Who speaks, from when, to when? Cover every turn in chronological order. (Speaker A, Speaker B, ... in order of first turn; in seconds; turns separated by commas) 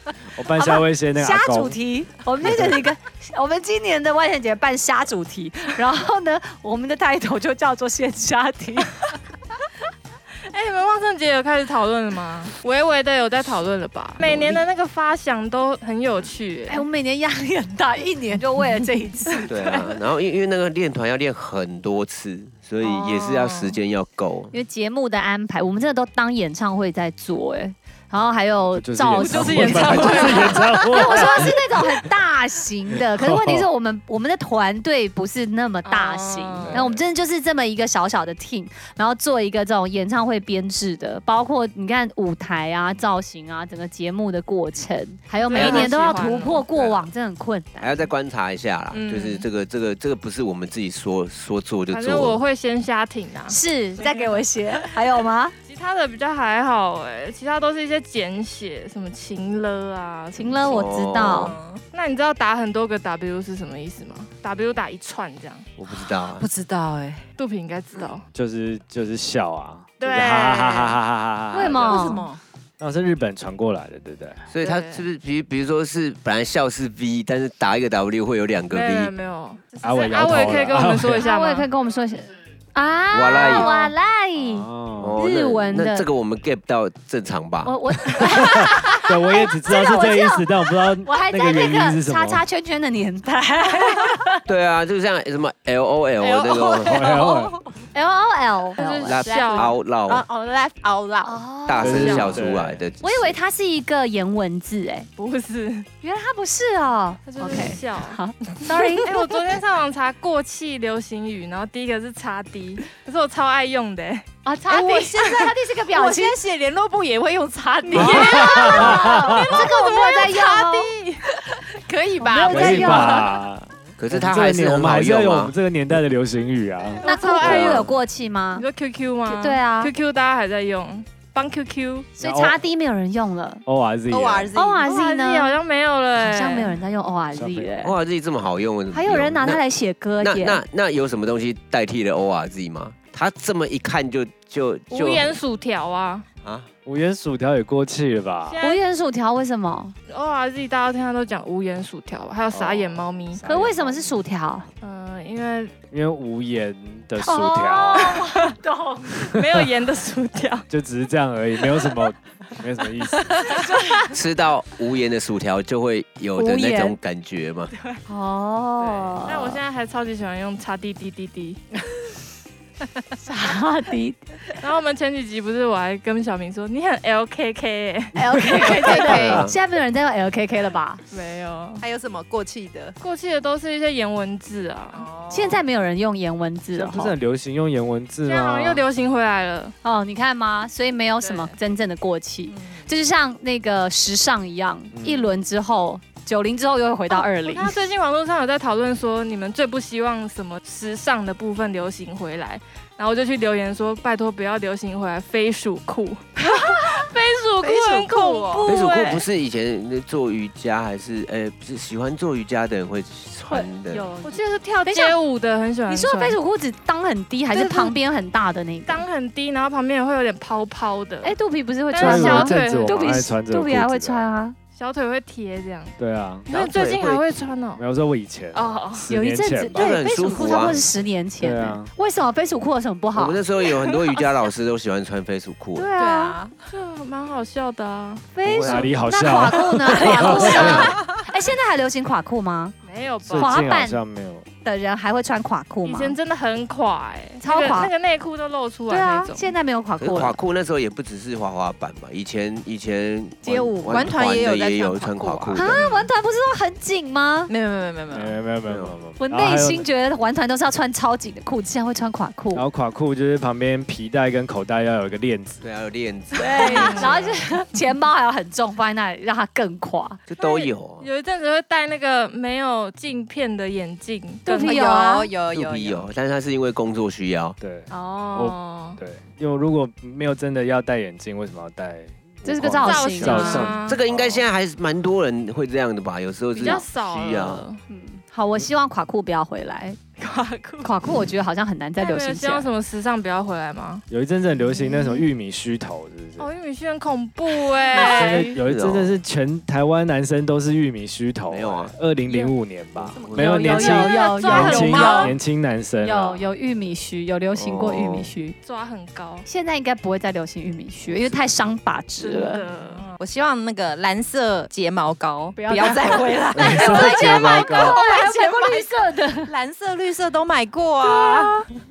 Speaker A: 0.3-1.8, Speaker B: 0.6-9.0, Speaker A: 2.4-2.8, Speaker C: 10.5-16.8, Speaker D: 14.2-14.6, Speaker B: 16.7-19.9, Speaker D: 19.5-24.5, Speaker C: 22.8-23.8, Speaker B: 24.5-48.1, Speaker A: 28.8-31.9, Speaker C: 29.2-30.8, Speaker A: 33.1-33.7, Speaker C: 35.9-36.8, Speaker A: 36.7-37.0, Speaker C: 45.4-46.7, Speaker D: 45.5-46.0, Speaker D: 46.7-47.1, Speaker D: 47.8-52.4, Speaker C: 48.9-49.5, Speaker C: 51.9-54.4, Speaker B: 53.5-55.5, Speaker C: 55.7-61.3, Speaker B: 60.4-61.6, Speaker D: 60.6-61.5, Speaker E: 61.3-61.8, Speaker C: 61.9-65.7, Speaker D: 65.8-66.5, Speaker E: 66.3-67.2, Speaker C: 67.4-68.2, Speaker A: 68.3-72.1, Speaker C: 70.0-71.0, Speaker B: 71.5-72.3, Speaker E: 71.8-72.4, Speaker A: 72.8-74.4, Speaker D: 74.5-79.1, Speaker C: 74.6-75.0, Speaker C: 78.7-81.7, Speaker A: 79.8-81.3, Speaker B: 81.2-86.1, Speaker D: 83.1-83.7, Speaker C: 83.4-83.9, Speaker A: 84.4-85.2, Speaker D: 85.0-87.8, Speaker B: 87.6-94.4, Speaker A: 88.2-92.4, Speaker D: 94.5-97.1, Speaker E: 96.2-97.6, Speaker A: 96.8-97.6, Speaker B: 97.9-99.2, Speaker C: 98.8-99.8, Speaker E: 98.8-101.4, Speaker D: 99.1-100.2, Speaker B: 101.2-102.2, Speaker D: 101.7-103.4, Speaker A: 101.8-102.8, Speaker C: 101.9-102.4, Speaker B: 103.0-105.1, Speaker C: 105.2-105.9, Speaker B: 106.0-109.4, Speaker C: 107.3-114.3, Speaker B: 114.5-116.4, Speaker E: 114.7-119.7, Speaker C: 117.9-121.3, Speaker B: 117.9-120.9, Speaker A: 118.0-119.6, Speaker E: 121.5-123.3, Speaker B: 122.2-123.3, Speaker A: 122.5-127.8, Speaker D: 124.0-125.5, Speaker C: 127.0-127.9, Speaker B: 127.0-128.7, Speaker D: 127.5-127.8, Speaker C: 128.6-132.1, Speaker B: 129.3-129.9, Speaker B: 132.2-133.6, Speaker A: 132.2-132.6, Speaker A: 133.7-134.5, Speaker E: 134.1-134.8, Speaker B: 134.6-135.6, Speaker C: 134.8-136.8, Speaker B: 136.2-137.9, Speaker A: 137.3-137.7, Speaker D: 137.8-139.6, Speaker B: 138.9-140.6, Speaker D: 140.2-145.4, Speaker C: 144.9-146.3, Speaker D: 146.4-146.7, Speaker A: 146.8-148.6, Speaker C: 148.5-148.8, Speaker B: 148.6-149.9, Speaker C: 150.1-153.4, Speaker A: 152.5-154.2, Speaker B: 153.4-154.7, Speaker C: 154.8-155.7, Speaker A: 155.9-158.2, Speaker B: 157.2-159.3, Speaker C: 157.9-158.6, Speaker C: 159.2-160.7, Speaker A: 159.3-159.7, Speaker A: 160.7-163.5, Speaker B: 163.5-164.0, Speaker D: 164.1-167.7, Speaker B: 166.4-167.0, Speaker B: 168.1-169.6, Speaker C: 168.8-171.6, Speaker B: 173.2-174.3, Speaker C: 174.6-178.2, Speaker B: 178.2-181.0, Speaker E: 178.2-179.5, Speaker D: 178.8-179.6, Speaker C: 181.1-181.8, Speaker E: 181.8-183.0, Speaker C: 183.0-185.1, Speaker E: 184.9-185.6, Speaker B: 185.3-187.2, Speaker A: 186.7-188.8, Speaker C: 188.2-189.7, Speaker B: 189.8-197.8, Speaker C: 191.2-191.5, Speaker E: 192.5-192.9, Speaker A: 194.9-195.3, Speaker C: 197.1-209.2, Speaker E: 207.6-208.8, Speaker D: 208.7-214.1, Speaker E: 214.1-214.4, Speaker C: 214.2-216.4, Speaker B: 214.9-215.2, Speaker B: 215.9-219.1, Speaker E: 217.6-217.9, Speaker C: 218.9-221.3, Speaker B: 221.2-224.6, Speaker C: 221.9-223.0, Speaker A: 222.0-224.3, Speaker C: 224.8-227.8, Speaker A: 226.0-226.5, Speaker D: 226.5-227.2, Speaker A: 227.8-230.0, Speaker C: 228.5-229.1, Speaker B: 229.1-233.4, Speaker D: 229.7-230.9, Speaker A: 231.4-231.9, Speaker D: 233.1-235.9, Speaker B: 235.8-236.4, Speaker E: 236.0-236.6, Speaker C: 236.7-238.3, Speaker B: 238.3-242.8, Speaker D: 238.4-238.9, Speaker A: 238.6-240.9, Speaker C: 240.1-240.7, Speaker E: 240.7-241.0, Speaker C: 242.8-243.7, Speaker A: 243.2-244.5, Speaker B: 243.3-244.0, Speaker B: 244.6-246.2, Speaker C: 245.8-249.5, Speaker B: 247.4-247.9, Speaker B: 248.9-250.4, Speaker D: 250.0-255.8, Speaker B: 253.5-253.9, Speaker E: 253.8-255.8, Speaker B: 255.5-257.5, Speaker E: 257.5-258.4, Speaker A: 258.1-259.9, Speaker D: 258.6-258.9, Speaker B: 259.2-262.7, Speaker A: 262.5-265.6, Speaker D: 265.6-267.3, Speaker B: 266.4-270.2, Speaker C: 266.6-267.2, Speaker D: 270.3-271.1, Speaker C: 270.4-274.8, Speaker B: 274.5-275.3, Speaker E: 274.6-276.1, Speaker D: 275.5-277.6, Speaker A: 277.6-284.5, Speaker C: 277.9-279.0, Speaker B: 282.4-283.7, Speaker C: 282.8-284.0, Speaker D: 283.3-287.6, Speaker C: 286.6-287.8, Speaker B: 287.9-290.0, Speaker C: 290.2-290.9, Speaker B: 290.8-292.7, Speaker C: 292.0-294.1, Speaker A: 294.1-296.5, Speaker C: 296.4-298.6, Speaker A: 297.9-306.5, Speaker B: 298.0-298.4, Speaker D: 298.6-299.2, Speaker D: 301.5-301.9, Speaker E: 302.3-305.4, Speaker B: 303.3-305.3, Speaker C: 303.9-305.4, Speaker B: 306.0-308.6, Speaker D: 307.6-308.3, Speaker C: 308.6-309.5, Speaker B: 309.4-312.6, Speaker C: 312.2-313.2, Speaker E: 313.2-318.9, Speaker B: 315.6-319.5, Speaker A: 316.6-318.0, Speaker E: 319.4-321.7